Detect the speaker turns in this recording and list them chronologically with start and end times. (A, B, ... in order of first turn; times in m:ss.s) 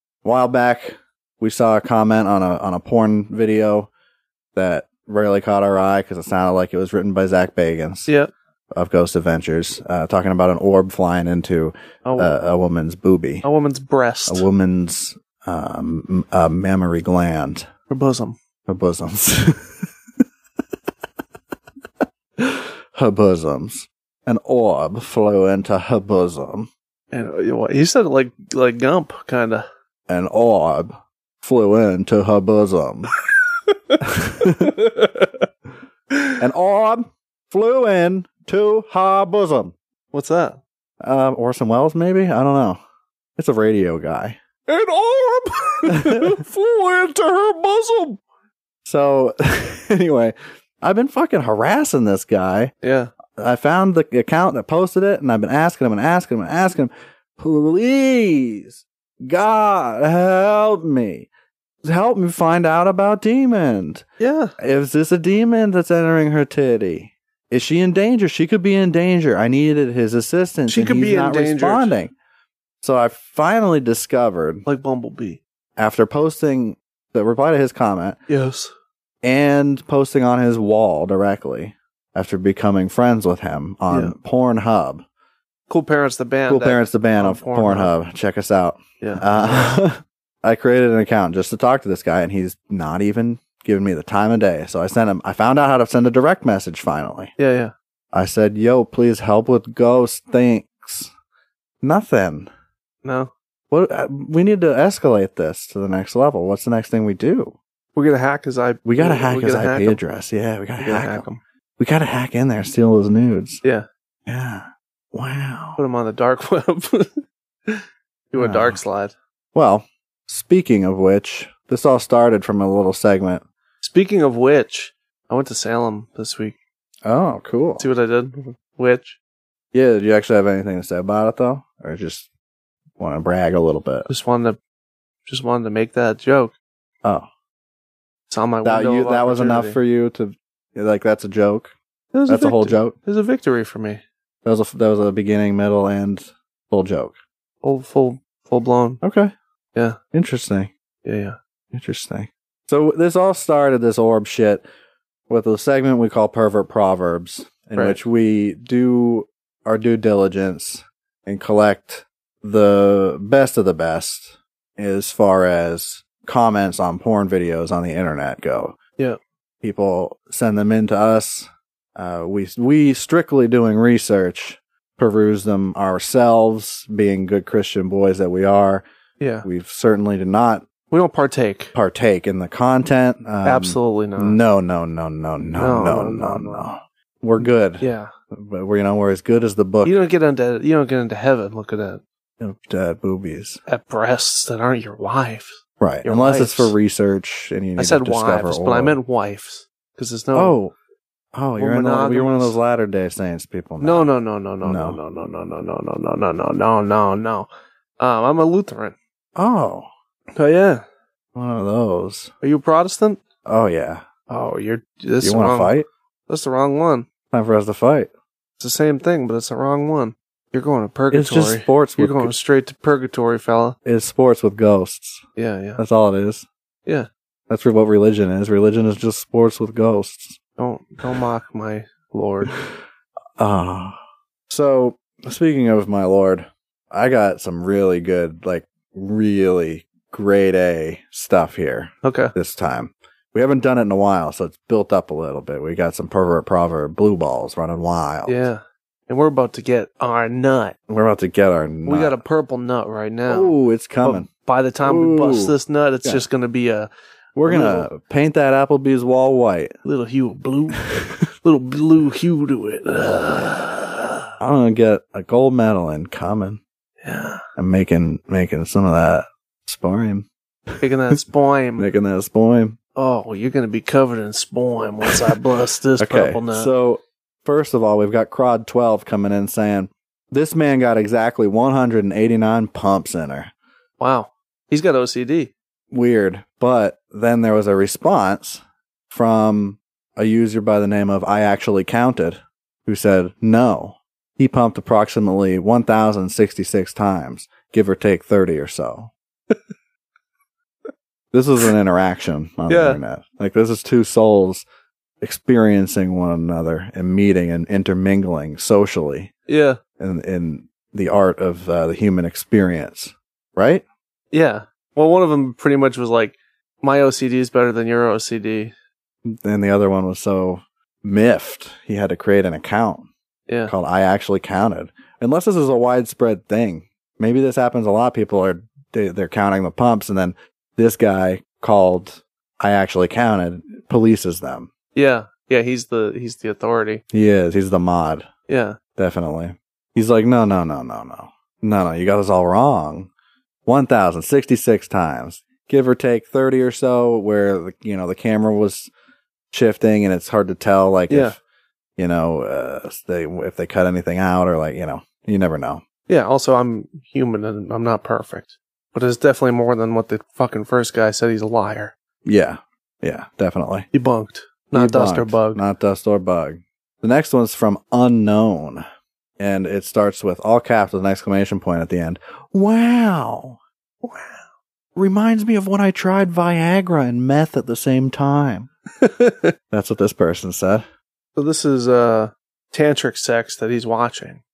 0:00.2-0:03.9 A
0:04.5-0:08.1 A
0:08.7-0:13.4 A
0:12.0-0:12.4 B
0:13.4-0:14.4 B
0:14.3-0:17.7 A
0:17.9-0:18.4 B
0:18.7-0:19.9 A
0:22.4-0:26.7 A
0:27.1-0:29.6 B
0:30.1-0:33.1 A
0:33.7-0:35.3 B
0:34.0-0:34.8 A
0:36.1-0:36.4 B
0:36.4-0:39.7 A
0:40.1-0:40.6 B
0:41.0-0:42.8 A
0:43.4-0:44.4 A
0:44.7-0:48.2 B
0:45.9-0:46.4 A
0:48.8-0:52.7 A
0:52.8-0:53.1 B
0:53.3-1:01.3 A
1:01.8-1:04.0 A
1:04.2-1:04.5 B
1:04.6-1:12.1 A
1:10.7-1:11.9 B
1:12.8-1:14.6 A
1:14.6-1:15.4 B
1:15.8-1:18.2 A
1:18.3-1:18.7 B
1:19.2-1:25.0 A
1:23.9-1:24.1 B
1:25.7-1:27.9 B
1:26.5-1:37.3 A
1:29.0-1:29.8 B
1:37.4-1:37.7 B
1:38.1-1:41.1 A
1:41.8-1:42.5 A
1:43.0-1:43.3 B
1:43.7-1:47.6 A
1:47.9-1:50.0 B
1:48.8-1:51.3 A
1:50.8-1:51.4 B
1:51.8-1:53.6 A
1:54.2-1:55.8 A
1:55.8-1:59.1 B
1:58.4-1:58.8 A
1:59.5-2:03.4 A
2:03.8-2:06.6 B
2:07.0-2:07.8 A
2:07.8-2:09.2 B
2:09.7-2:12.3 A
2:13.0-2:14.1 A
2:14.1-2:14.6 B
2:15.2-2:16.5 B
2:18.3-2:19.8 B
2:18.6-2:21.7 A
2:22.1-2:24.0 B
2:22.3-2:22.9 A
2:24.4-2:27.1 A
2:27.6-2:29.0 B
2:29.0-2:29.3 A
2:30.1-2:30.7 A
2:31.0-2:31.4 B
2:31.7-2:34.6 A
2:35.3-2:48.8 A
2:49.6-2:58.8 A
2:59.2-2:59.4 B
2:59.4-3:00.6 A
3:00.9-3:01.7 B
3:01.7-3:10.0 A
3:03.4-3:04.4 B
3:05.6-3:06.7 B
3:07.8-3:08.1 B
3:09.8-3:12.0 B
3:12.4-3:13.6 A
3:13.7-3:16.7 B
3:15.8-3:19.0 A
3:17.8-3:20.6 B
3:20.3-3:20.7 A
3:21.3-3:24.1 A
3:21.6-3:22.6 B
3:23.8-3:29.0 B
3:24.6-3:25.0 A
3:29.4-3:29.9 A
3:30.3-3:30.8 B
3:31.3-3:32.3 A
3:32.4-3:33.2 B
3:33.4-3:34.0 A
3:34.3-3:35.8 B
3:35.2-3:35.9 A
3:36.3-3:37.0 B
3:37.3-3:38.1 A
3:38.6-3:43.8 B
3:41.1-3:42.3 A
3:43.8-3:45.2 A
3:45.4-3:45.8 B
3:45.8-3:46.4 A
3:47.5-3:50.4 A
3:50.6-3:52.5 B
3:53.4-3:54.0 A
3:54.5-4:08.4 A
4:02.0-4:02.3 B
4:08.2-4:10.8 B
4:10.9-4:12.2 A
4:11.8-4:16.9 B
4:13.3-4:14.3 A
4:14.8-4:16.2 A
4:17.4-4:19.7 A
4:17.4-4:17.9 B
4:19.8-4:20.9 B
4:21.4-4:24.2 B
4:24.4-4:26.6 A
4:27.0-4:27.4 B
4:27.6-4:30.8 A
4:30.8-4:31.9 B
4:31.8-4:32.8 A
4:33.0-4:36.7 B
4:36.0-4:43.5 A
4:44.0-4:45.5 B
4:45.9-4:59.1 A
5:01.3-5:04.6 A
5:02.7-5:03.0 B
5:05.2-5:09.3 A
5:09.5-5:09.8 B
5:10.0-5:13.8 A
5:14.3-5:18.7 B
5:19.2-5:23.1 A
5:23.5-5:23.7 B
5:23.7-5:34.7 A
5:34.9-5:37.0 B
5:37.1-5:38.3 A
5:38.5-5:38.8 B
5:39.0-5:43.1 A
5:43.6-5:48.9 A
5:49.5-5:51.4 A
5:51.1-5:51.4 B
5:52.0-5:55.8 A
5:56.1-6:01.9 B
6:02.2-6:03.9 A
6:03.9-6:05.6 B
6:04.7-6:08.8 A
6:09.4-6:13.6 A
6:14.0-6:14.4 B
6:14.9-6:18.7 A
6:19.0-6:19.5 B
6:19.7-6:20.8 A
6:21.4-6:24.4 B